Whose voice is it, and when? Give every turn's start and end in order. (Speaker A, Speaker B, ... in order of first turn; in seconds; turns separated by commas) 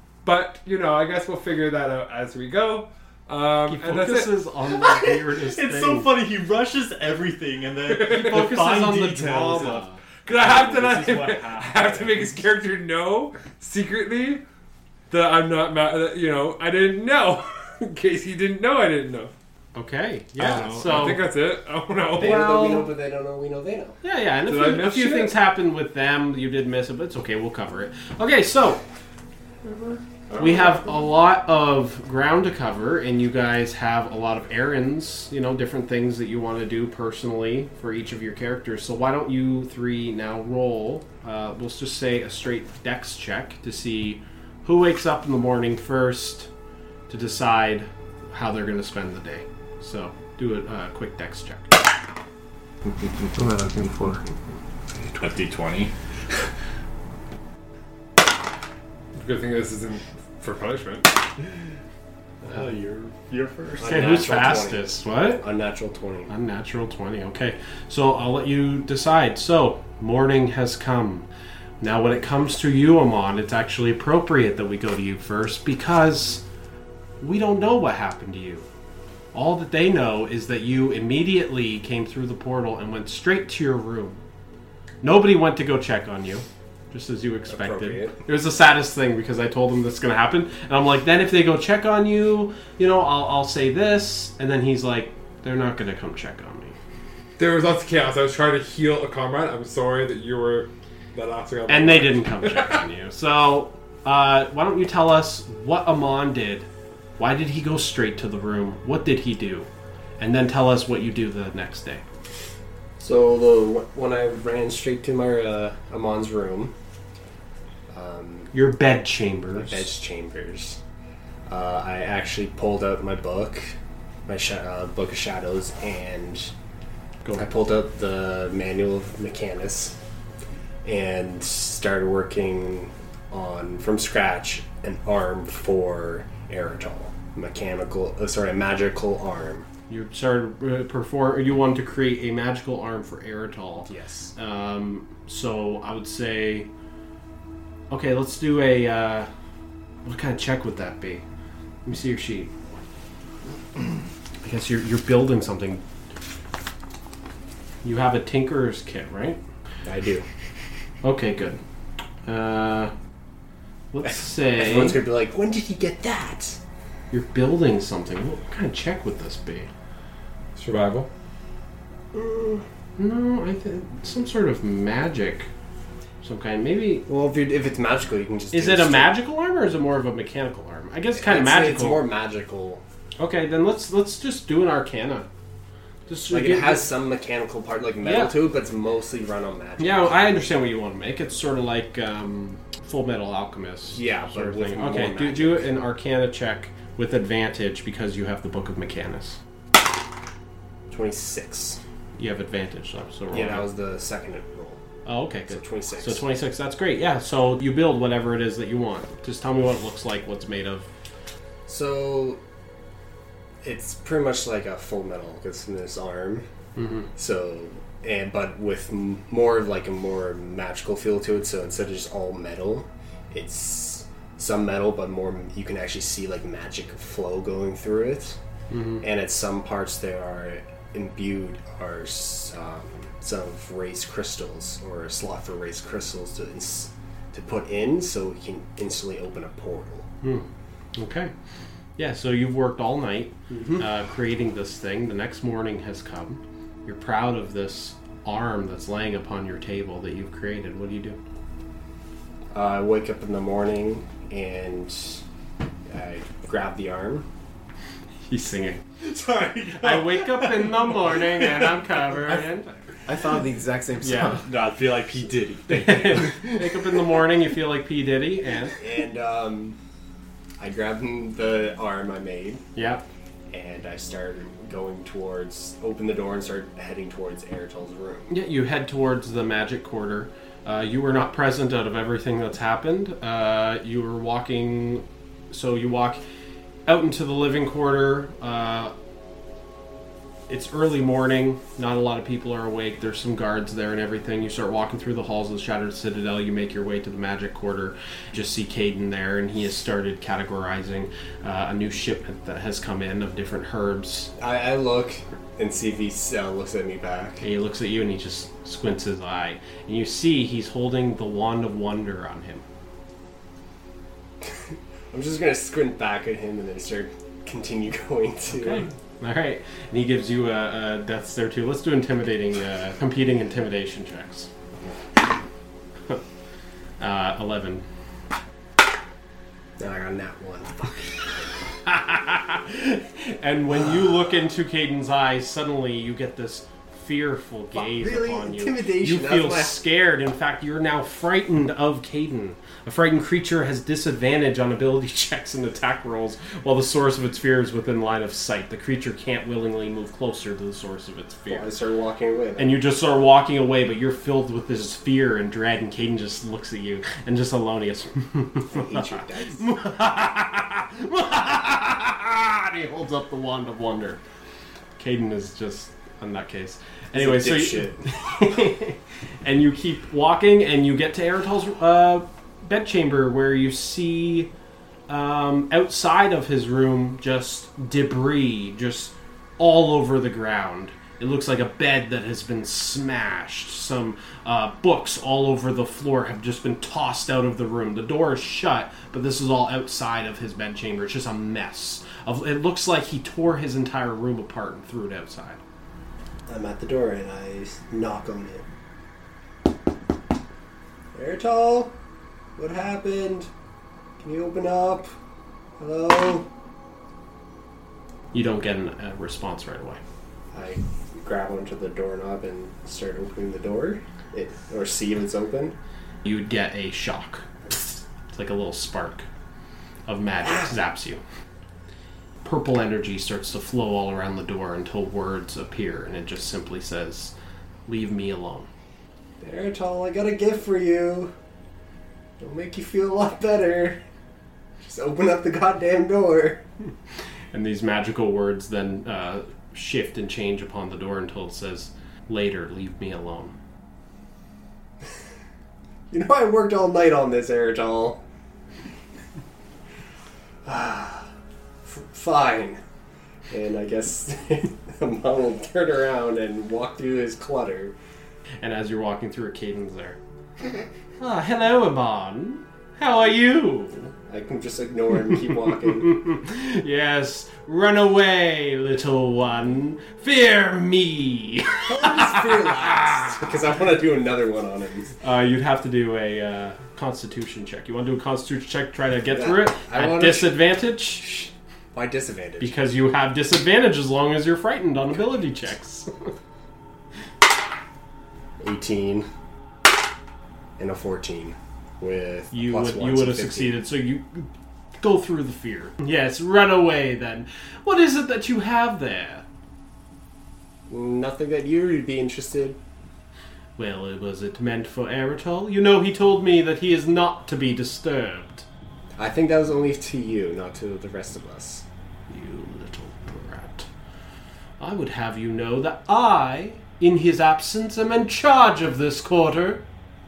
Speaker A: 0.2-4.3, Speaker B: 3.7-6.1, Speaker C: 4.8-12.4, Speaker A: 7.9-8.6, Speaker B: 8.0-10.0, Speaker A: 10.3-14.4, Speaker A: 15.1-19.3, Speaker B: 19.8-21.2, Speaker A: 20.4-22.6, Speaker D: 22.2-24.0, Speaker B: 22.2-22.9, Speaker B: 24.0-28.8, Speaker A: 24.5-25.4, Speaker B: 30.4-46.5, Speaker B: 47.1-51.8, Speaker E: 53.3-54.2, Speaker A: 53.4-54.1, Speaker C: 55.2-55.9, Speaker A: 59.2-61.1, Speaker C: 62.4-63.9, Speaker D: 63.8-66.3, Speaker B: 63.8-65.4, Speaker B: 66.3-71.3, Speaker B: 71.8-76.4, Speaker B: 77.2-78.7, Speaker B: 79.3-84.2, Speaker B: 85.0-96.8, Speaker D: 87.5-88.2, Speaker A: 97.4-102.8, Speaker B: 101.7-109.7, Speaker B: 110.2-112.0, Speaker D: 113.0-116.7, Speaker D: 117.9-118.5, Speaker B: 118.5-119.9, Speaker D: 119.5-120.8, Speaker D: 121.5-123.8, Speaker D: 124.3-126.5, Speaker D: 127.3-130.0, Speaker D: 130.8-139.7, Speaker B: 139.9-146.7, Speaker D: 143.9-144.3, Speaker B: 147.9-149.3, Speaker B: 150.1-151.2, Speaker B: 151.8-152.8, Speaker B: 154.4-155.8, Speaker B: 157.8-159.4, Speaker D: 159.8-160.3, Speaker B: 161.0-161.6, Speaker B: 162.3-162.9, Speaker B: 163.9-165.0, Speaker D: 164.1-166.6, Speaker B: 167.1-169.7, Speaker A: 170.6-171.1, Speaker D: 172.1-172.6, Speaker B: 173.0-175.5, Speaker B: 176.2-177.1, Speaker D: 177.1-179.1, Speaker B: 178.5-182.0, Speaker D: 181.2-182.8, Speaker B: 183.2-185.3, Speaker B: 186.1-186.9, Speaker D: 186.3-190.2, Speaker B: 188.0-188.4, Speaker B: 189.8-199.4, Speaker D: 193.9-195.7, Speaker D: 200.9-201.8, Speaker B: 202.2-203.7, Speaker D: 203.3-204.8, Speaker B: 205.1-210.9, Speaker D: 205.5-206.2, Speaker D: 211.7-212.4, Speaker D: 213.6-216.5, Speaker B: 216.8-217.1, Speaker D: 217.2-228.4, Speaker B: 228.7-229.0, Speaker D: 229.0-240.1, Speaker B: 240.2-241.3, Speaker B: 242.0-251.2, Speaker D: 243.5-243.8, Speaker D: 252.5-255.2, Speaker D: 255.9-257.3, Speaker B: 258.3-258.8, Speaker C: 259.0-261.8, Speaker B: 259.8-262.7, Speaker E: 263.1-264.5, Speaker B: 264.0-264.4, Speaker C: 264.4-266.4, Speaker B: 265.7-268.8, Speaker D: 268.8-269.8, Speaker D: 270.6-272.6, Speaker B: 272.8-273.1, Speaker D: 273.5-278.3, Speaker B: 278.3-286.2, Speaker B: 286.9-288.9, Speaker B: 290.5-304.3, Speaker D: 304.4-307.4, Speaker B: 307.4-312.6, Speaker D: 315.1-318.9, Speaker B: 318.5-324.5, Speaker B: 327.0-327.9, Speaker D: 329.8-331.5, Speaker B: 331.9-351.7, Speaker D: 337.7-339.8, Speaker D: 351.5-352.8, Speaker B: 352.6-364.2, Speaker D: 358.7-359.6, Speaker B: 365.0-374.5, Speaker D: 367.1-368.1, Speaker B: 375.1-395.6, Speaker D: 396.5-398.7, Speaker D: 401.1-402.0, Speaker D: 402.6-403.5, Speaker D: 404.2-405.1, Speaker D: 405.8-406.5, Speaker B: 408.3-410.0, Speaker D: 410.5-415.8, Speaker B: 416.2-419.3, Speaker B: 420.1-421.2, Speaker D: 420.4-420.7, Speaker B: 422.4-427.3, Speaker B: 427.9-428.7, Speaker D: 429.4-431.3, Speaker D: 432.4-434.0, Speaker D: 434.8-436.6, Speaker B: 437.5-443.6, Speaker D: 446.1-448.2, Speaker D: 450.6-451.3, Speaker D: 451.9-452.8, Speaker D: 453.5-457.9, Speaker B: 458.6-460.2, Speaker B: 461.2-464.1, Speaker D: 464.3-466.2, Speaker B: 465.8-473.4, Speaker D: 471.9-475.1, Speaker B: 475.2-481.5, Speaker D: 479.3-480.6, Speaker D: 481.9-482.8, Speaker B: 482.6-486.3, Speaker D: 488.6-489.3, Speaker D: 490.8-493.8, Speaker B: 492.5-499.4, Speaker D: 500.9-502.8, Speaker B: 503.8-508.7, Speaker D: 509.2-511.9, Speaker B: 512.3-513.9, Speaker B: 514.8-519.8